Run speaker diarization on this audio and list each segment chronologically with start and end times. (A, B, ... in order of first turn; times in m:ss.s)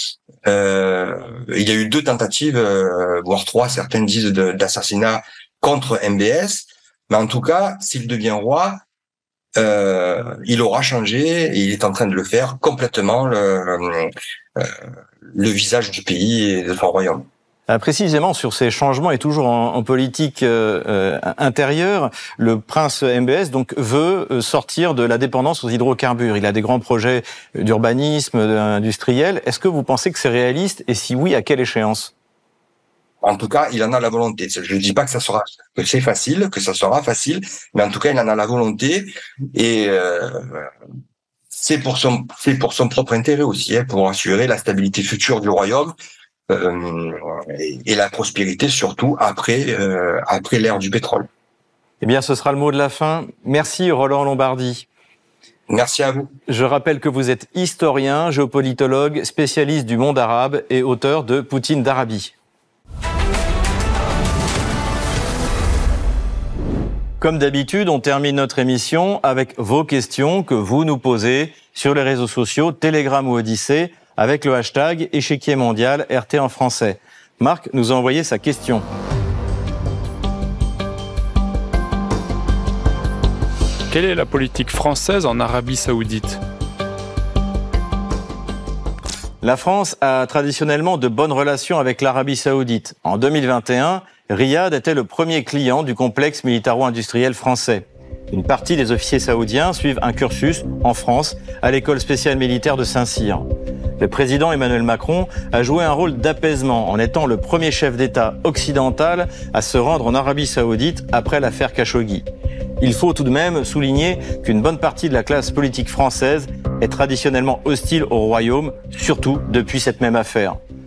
0:00.5-0:08.8 A
0:09.6-0:14.7 A
0:15.3-0:17.2 A
0:17.7-0:32.1 B
0:33.2-0:40.7 A
0:41.5-0:45.9 A
0:46.5-0:51.3 A
0:52.0-0:54.9 B
0:55.7-0:56.3 A
0:56.5-1:02.3 B
1:07.2-1:18.9 B
1:23.9-1:26.4 C
1:29.4-1:43.5 B
1:44.0-1:52.2 B
1:52.8-2:00.6 B